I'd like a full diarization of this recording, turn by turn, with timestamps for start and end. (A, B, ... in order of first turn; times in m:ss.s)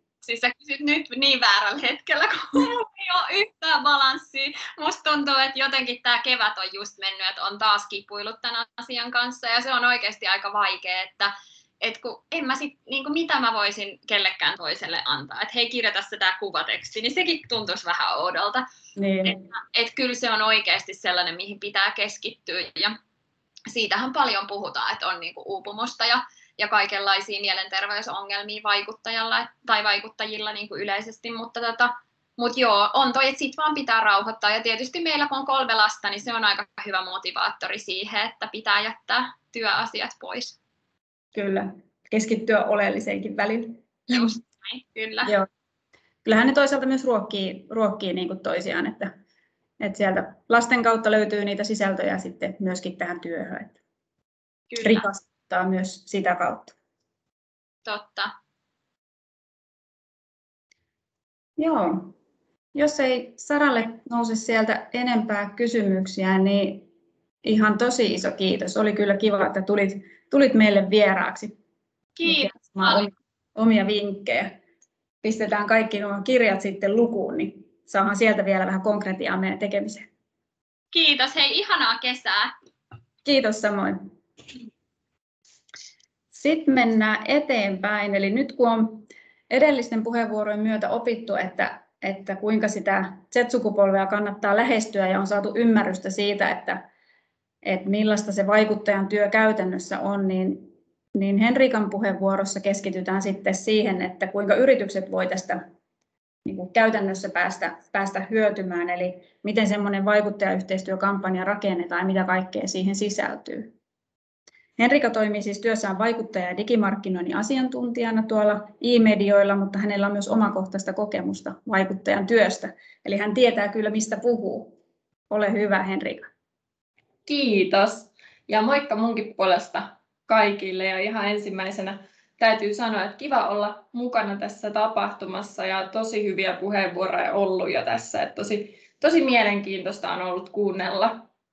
0:00.2-0:18.6 A
0:19.0-0:19.4 B
0:19.3-0:23.0 A
0:23.7-0:40.6 A
0:41.3-0:44.4 B
0:44.1-0:45.3 A
0:46.2-0:49.1 B
0:49.8-0:53.8 B
0:54.7-0:55.0 A
0:54.8-0:56.7 B
0:57.8-0:58.3 A
1:01.6-1:02.1 B
1:02.7-1:06.9 B
1:07.4-1:11.5 B
1:12.2-1:13.0 A
1:12.2-1:14.6 B
1:15.2-1:20.1 B
1:20.9-1:22.5 A
1:23.2-1:24.1 B
1:26.3-1:36.8 B
1:37.6-1:45.6 B
1:46.4-1:53.7 B
1:54.8-2:04.8 B
2:05.3-2:06.3 B
2:07.2-2:21.3 C